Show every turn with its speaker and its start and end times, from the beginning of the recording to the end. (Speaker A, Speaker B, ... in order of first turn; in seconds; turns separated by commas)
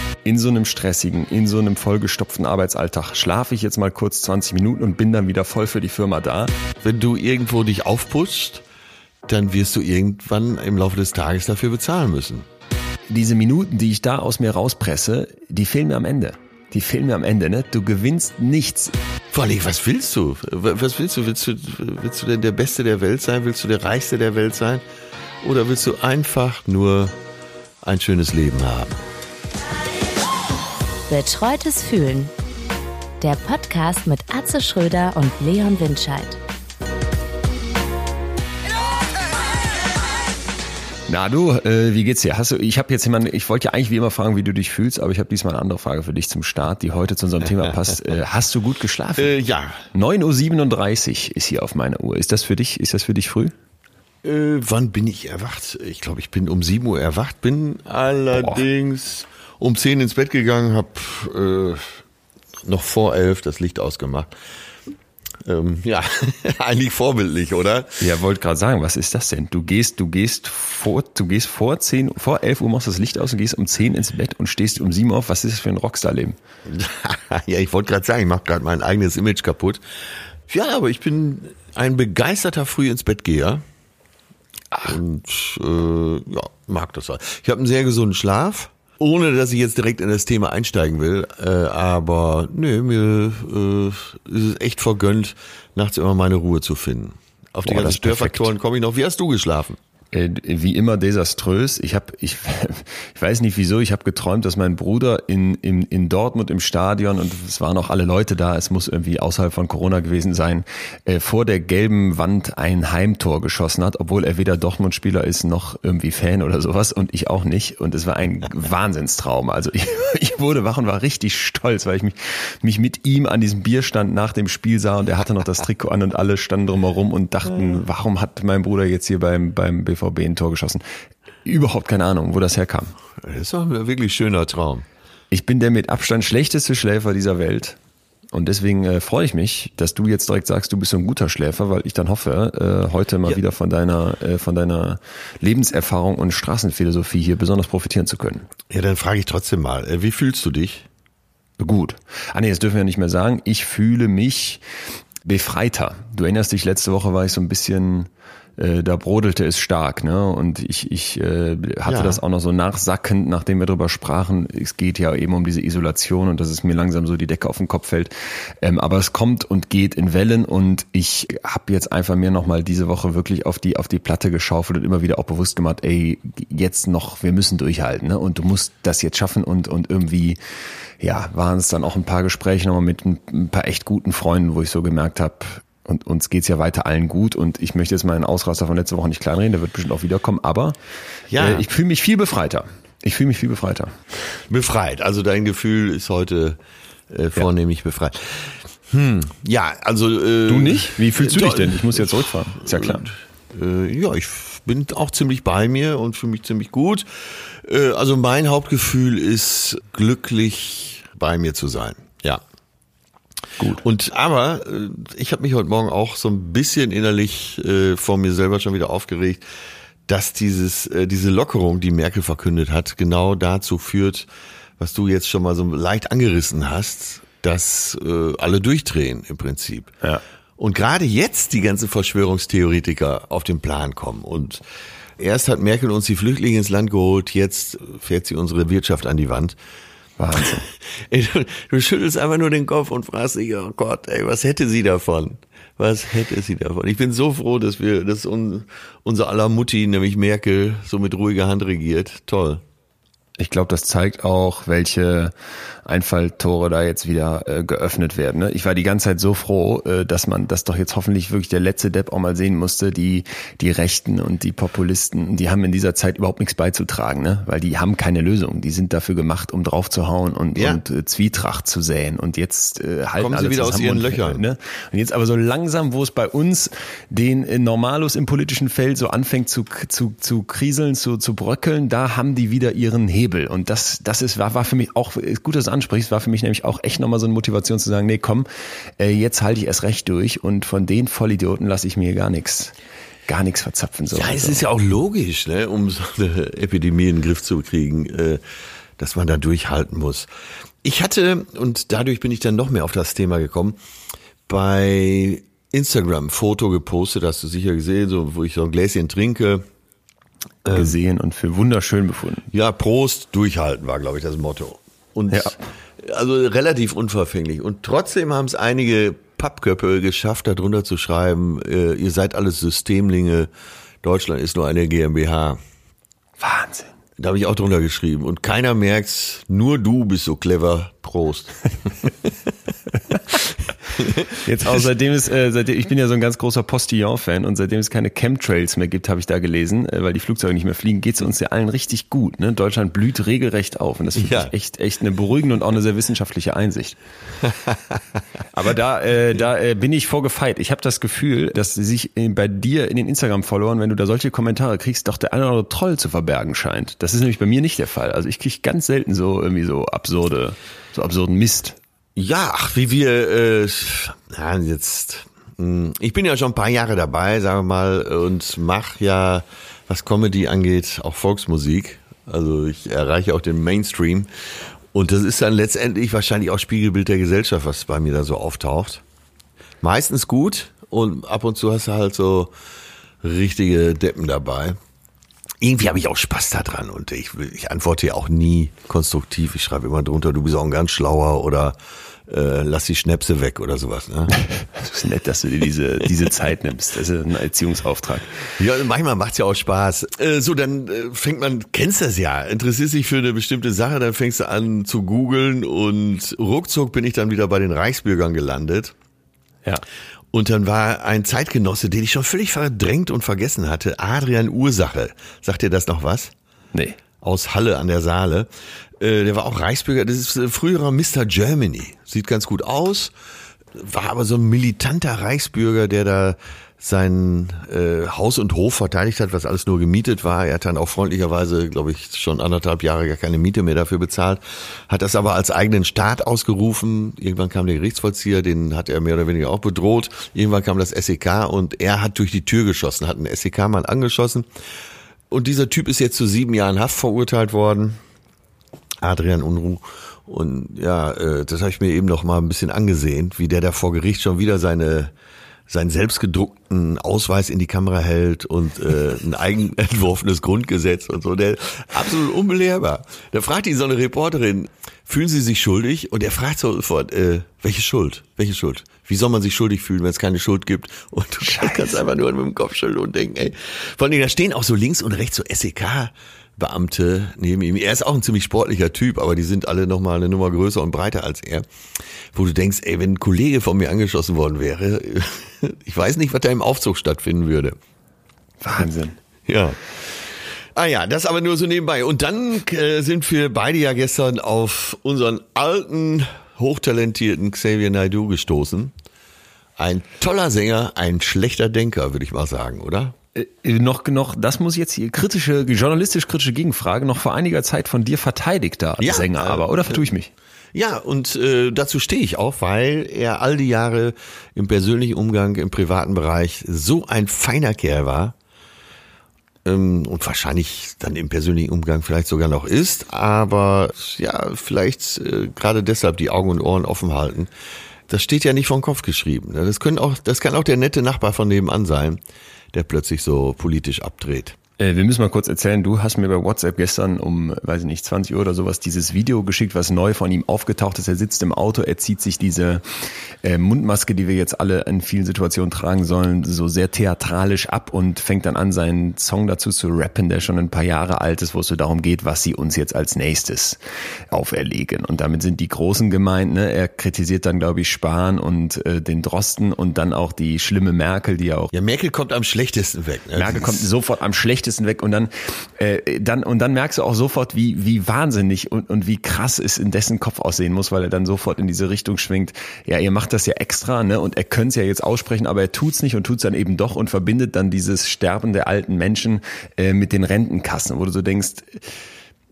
Speaker A: 0.2-6.5, Speaker B: 6.8-8.6, Speaker B: 9.3-12.5, Speaker A: 13.1-18.9, Speaker B: 19.3-24.8, Speaker B: 25.4-27.1, Speaker B: 27.8-29.0, Speaker C: 31.1-32.3, Speaker C: 33.2-36.4, Speaker A: 41.1-49.3, Speaker B: 49.2-49.9, Speaker A: 49.9-53.5, Speaker B: 54.2-62.0, Speaker B: 62.7-64.3, Speaker B: 65.5-68.0, Speaker A: 68.0-76.4, Speaker B: 76.7-79.8, Speaker B: 80.5-83.6, Speaker B: 84.8-99.8, Speaker A: 97.7-98.5, Speaker A: 100.1-130.8, Speaker A: 131.4-132.9, Speaker B: 133.2-134.9, Speaker A: 135.3-137.8, Speaker A: 138.3-148.5, Speaker B: 148.7-150.9, Speaker A: 151.6-154.6, Speaker A: 155.2-180.4, Speaker B: 161.9-162.2, Speaker A: 181.0-190.8, Speaker B: 191.3-191.7, Speaker A: 191.4-193.9, Speaker B: 194.5-196.6, Speaker B: 197.1-212.4, Speaker A: 200.5-203.1, Speaker B: 213.8-219.4, Speaker B: 220.1-224.3, Speaker B: 224.8-230.0, Speaker B: 230.6-234.6, Speaker B: 235.2-239.6, Speaker A: 240.2-240.6, Speaker B: 240.4-252.6, Speaker A: 253.4-255.3, Speaker A: 255.8-288.5, Speaker B: 270.6-270.8, Speaker B: 273.2-274.4, Speaker A: 289.0-292.7, Speaker A: 293.3-294.6, Speaker B: 294.1-298.4, Speaker B: 299.0-300.3, Speaker B: 300.8-303.8, Speaker B: 304.5-309.6, Speaker A: 310.6-312.5, Speaker B: 310.7-310.9, Speaker B: 312.5-323.5, Speaker B: 324.0-325.6, Speaker A: 326.4-326.9, Speaker B: 327.2-332.3, Speaker B: 333.4-334.9, Speaker A: 334.4-347.0, Speaker B: 344.2-344.5, Speaker B: 347.4-348.0, Speaker A: 348.5-361.8, Speaker B: 362.2-374.3, Speaker B: 374.9-379.0, Speaker B: 379.8-382.5, Speaker B: 383.2-384.8, Speaker B: 385.6-391.8, Speaker B: 392.3-394.4, Speaker A: 394.7-398.4, Speaker B: 398.4-408.9, Speaker B: 410.3-416.3, Speaker B: 417.2-423.1, Speaker B: 423.7-444.5, Speaker B: 445.3-448.0, Speaker B: 449.0-455.1, Speaker B: 455.7-481.6, Speaker A: 471.4-472.0, Speaker B: 482.3-487.8, Speaker A: 488.6-489.2, Speaker B: 489.5-498.9, Speaker B: 499.8-503.1, Speaker A: 503.4-510.3, Speaker B: 509.0-510.0, Speaker B: 510.7-518.4, Speaker B: 519.6-527.5, Speaker B: 528.1-532.2, Speaker B: 532.7-534.6, Speaker A: 534.8-553.8, Speaker A: 554.3-561.7, Speaker B: 561.7-563.9, Speaker A: 563.4-581.9